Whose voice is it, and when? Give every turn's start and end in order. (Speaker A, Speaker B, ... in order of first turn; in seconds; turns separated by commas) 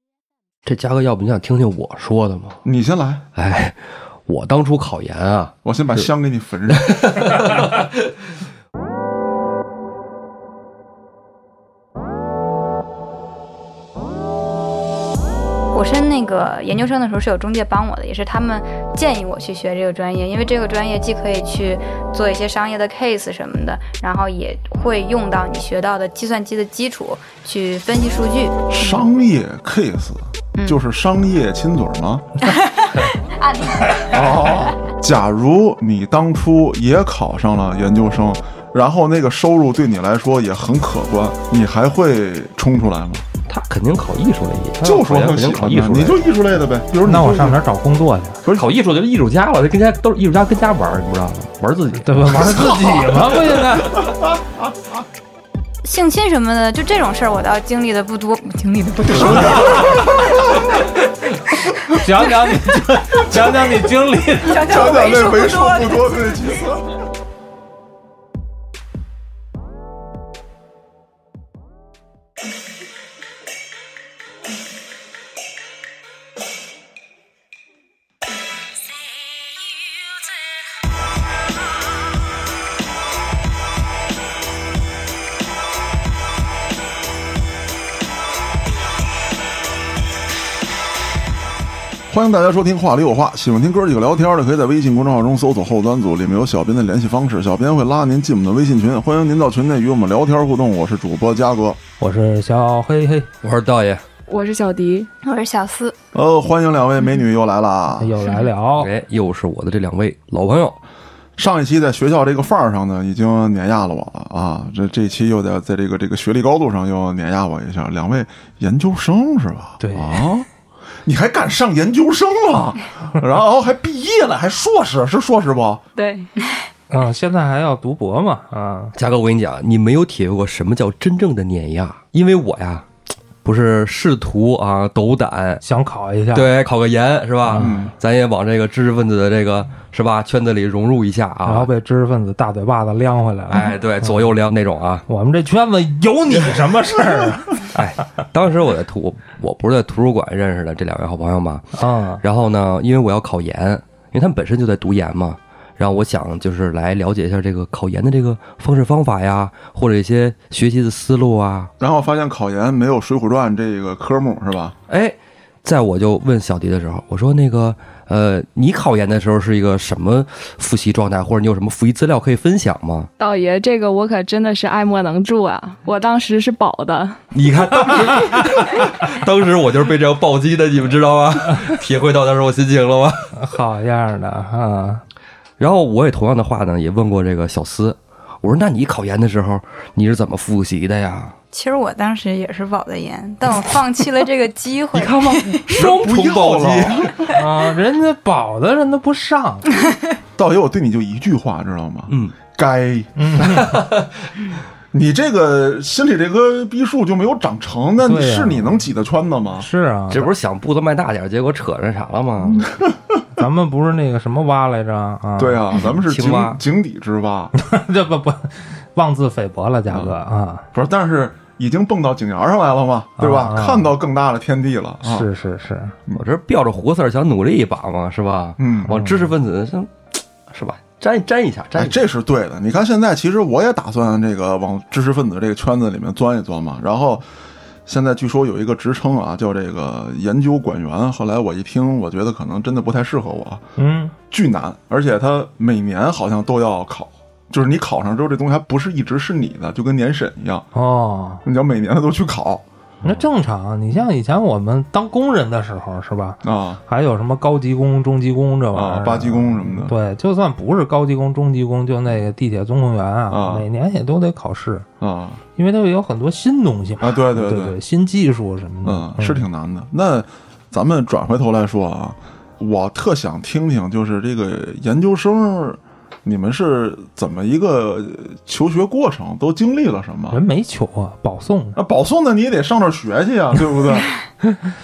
Speaker A: 0.7-2.6, Speaker B: 2.6-3.2, Speaker A: 3.3-6.1, Speaker B: 5.6-7.3, Speaker A: 6.7-7.9, Speaker C: 15.7-29.0, Speaker B: 28.7-32.3, Speaker C: 32.5-34.7, Speaker B: 34.1-43.2, Speaker A: 43.5-46.3, Speaker B: 44.8-47.6, Speaker D: 47.0-48.4, Speaker A: 48.5-53.2, Speaker D: 52.0-54.0, Speaker C: 55.8-60.6, Speaker B: 59.1-60.7, Speaker D: 61.9-64.7, Speaker C: 64.4-66.4, Speaker B: 64.6-66.9, Speaker B: 92.1-101.8, Speaker D: 102.0-103.3, Speaker A: 103.4-104.0, Speaker E: 104.3-105.1, Speaker C: 105.2-105.9, Speaker B: 106.1-108.2, Speaker D: 108.0-108.9, Speaker A: 108.8-110.8, Speaker B: 111.4-120.5, Speaker D: 119.8-120.3, Speaker B: 121.0-125.8, Speaker C: 126.0-126.7, Speaker E: 126.0-126.2, Speaker D: 126.9-128.9, Speaker A: 128.9-132.9, Speaker A: 133.4-135.6, Speaker D: 135.6-136.5, Speaker A: 136.3-141.7, Speaker D: 137.5-137.9, Speaker B: 137.6-137.9, Speaker D: 141.4-144.2, Speaker A: 143.5-145.1, Speaker D: 145.1-147.6, Speaker A: 147.7-151.7, Speaker D: 151.8-152.2, Speaker A: 152.2-161.7, Speaker B: 161.8-164.8, Speaker A: 164.9-173.1, Speaker E: 173.2-177.2, Speaker A: 177.3-183.3, Speaker D: 183.3-185.0, Speaker A: 185.6-191.3, Speaker C: 191.5-195.6, Speaker A: 194.9-197.1, Speaker B: 195.7-197.2, Speaker D: 197.3-199.7, Speaker B: 200.4-203.7, Speaker A: 202.1-202.3, Speaker D: 203.2-203.7, Speaker A: 203.6-204.1, Speaker B: 204.9-209.7, Speaker D: 208.0-208.7, Speaker D: 209.6-210.3, Speaker A: 210.1-212.7, Speaker D: 213.4-215.6, Speaker B: 215.4-217.5, Speaker A: 216.1-216.6, Speaker D: 217.6-220.6, Speaker B: 219.9-220.2, Speaker B: 220.7-225.3, Speaker D: 223.2-223.9, Speaker D: 225.0-226.0, Speaker A: 226.2-232.0, Speaker B: 228.6-229.1, Speaker B: 231.7-237.2, Speaker B: 237.9-243.6, Speaker D: 243.8-244.1, Speaker B: 244.3-250.7, Speaker D: 250.7-251.4, Speaker B: 251.4-252.6, Speaker D: 253.0-264.9, Speaker B: 256.4-256.8, Speaker B: 258.7-259.9, Speaker B: 263.3-263.7, Speaker B: 265.0-265.4, Speaker D: 265.6-269.4, Speaker B: 267.0-267.8, Speaker B: 268.8-280.4, Speaker D: 280.3-281.8, Speaker B: 281.8-284.1